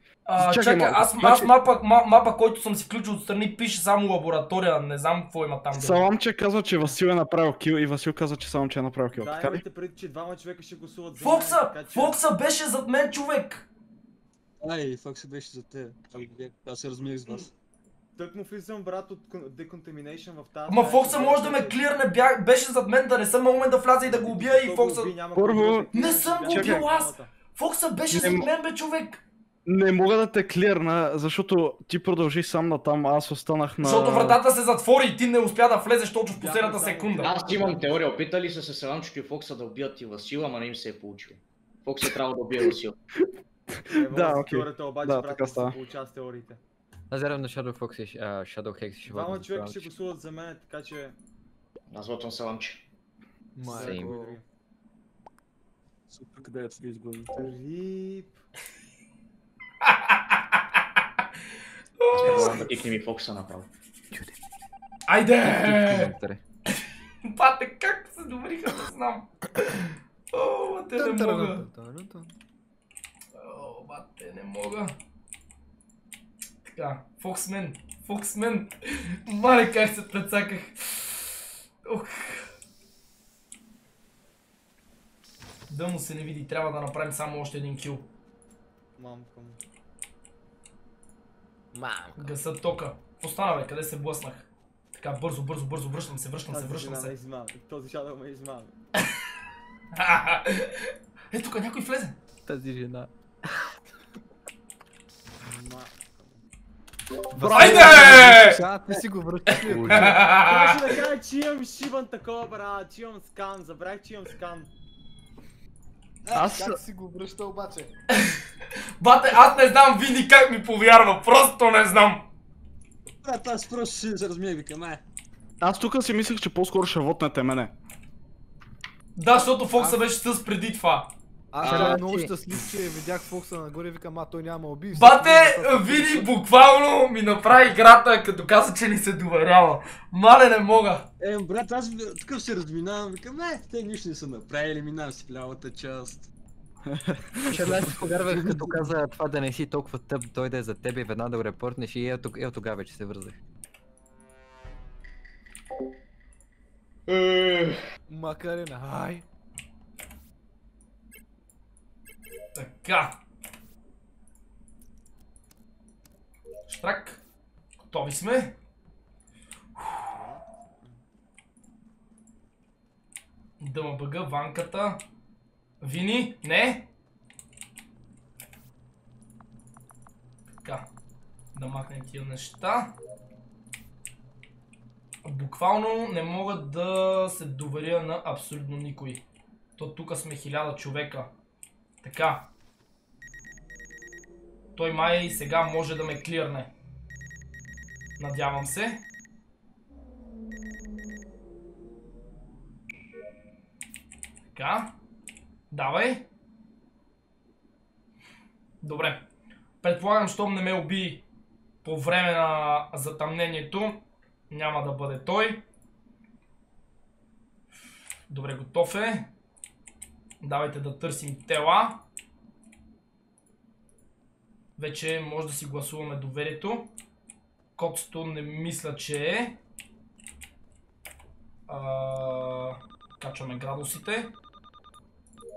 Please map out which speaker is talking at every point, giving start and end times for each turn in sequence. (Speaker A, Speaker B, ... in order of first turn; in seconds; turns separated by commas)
Speaker A: 0.2-6.1, Speaker B: 0.4-1.5, Speaker B: 5.7-9.6, Speaker C: 9.1-12.2, Speaker A: 11.2-13.7, Speaker D: 14.6-17.5, Speaker C: 18.1-21.8, Speaker A: 20.7-25.1, Speaker C: 24.0-27.3, Speaker B: 25.3-25.9, Speaker A: 25.9-29.2, Speaker B: 26.5-26.9, Speaker B: 28.1-28.5, Speaker B: 29.6-34.4, Speaker A: 33.8-37.4, Speaker C: 36.3-38.1, Speaker E: 37.2-43.0, Speaker B: 43.9-45.8, Speaker C: 43.9-46.6, Speaker F: 47.1-49.9, Speaker C: 49.0-51.2, Speaker E: 51.9-52.8, Speaker G: 53.5-54.4, Speaker C: 53.6-54.4, Speaker F: 53.7-54.1, Speaker D: 56.1-57.4, Speaker C: 57.4-58.4, Speaker A: 59.8-60.8, Speaker A: 62.0-62.6, Speaker E: 62.1-63.7, Speaker A: 65.1-66.1, Speaker F: 65.5-66.4, Speaker A: 67.2-71.7, Speaker G: 71.0-72.3, Speaker A: 73.3-74.9, Speaker A: 76.6-81.3, Speaker A: 81.8-82.4, Speaker A: 85.7-88.0, Speaker C: 89.0-89.6, Speaker G: 91.7-92.3, Speaker A: 92.2-97.1, Speaker C: 96.5-98.7, Speaker A: 100.0-102.2, Speaker F: 102.5-103.1, Speaker C: 105.4-106.4, Speaker B: 107.3-108.4, Speaker C: 107.4-108.2, Speaker A: 107.5-108.6, Speaker G: 107.5-110.2, Speaker F: 109.6-110.1, Speaker A: 109.8-110.8, Speaker C: 110.3-114.7, Speaker G: 116.2-117.9, Speaker B: 116.3-116.8, Speaker A: 119.0-122.3, Speaker D: 123.2-125.0, Speaker B: 125.6-127.7, Speaker A: 129.2-131.1, Speaker G: 129.8-130.0, Speaker G: 131.5-136.3, Speaker E: 131.6-132.0, Speaker F: 131.6-132.3, Speaker A: 134.9-141.1, Speaker D: 141.2-146.3, Speaker B: 146.9-147.9, Speaker F: 147.4-153.3, Speaker D: 148.3-148.7, Speaker E: 157.1-157.8, Speaker G: 158.1-159.2, Speaker A: 162.5-163.2, Speaker A: 166.7-167.2, Speaker A: 167.8-168.6, Speaker C: 170.0-171.0, Speaker A: 173.6-175.0, Speaker A: 175.8-176.9, Speaker A: 181.5-182.9, Speaker A: 185.2-189.2, Speaker A: 189.8-191.3, Speaker A: 192.0-192.5, Speaker A: 194.7-196.7, Speaker A: 198.2-199.0, Speaker A: 204.5-204.9, Speaker A: 205.7-206.2, Speaker A: 208.8-209.2, Speaker A: 209.8-211.2, Speaker A: 211.8-215.6, Speaker A: 218.3-219.3, Speaker A: 220.4-222.0, Speaker A: 224.8-226.9, Speaker A: 227.8-229.6, Speaker A: 231.7-234.3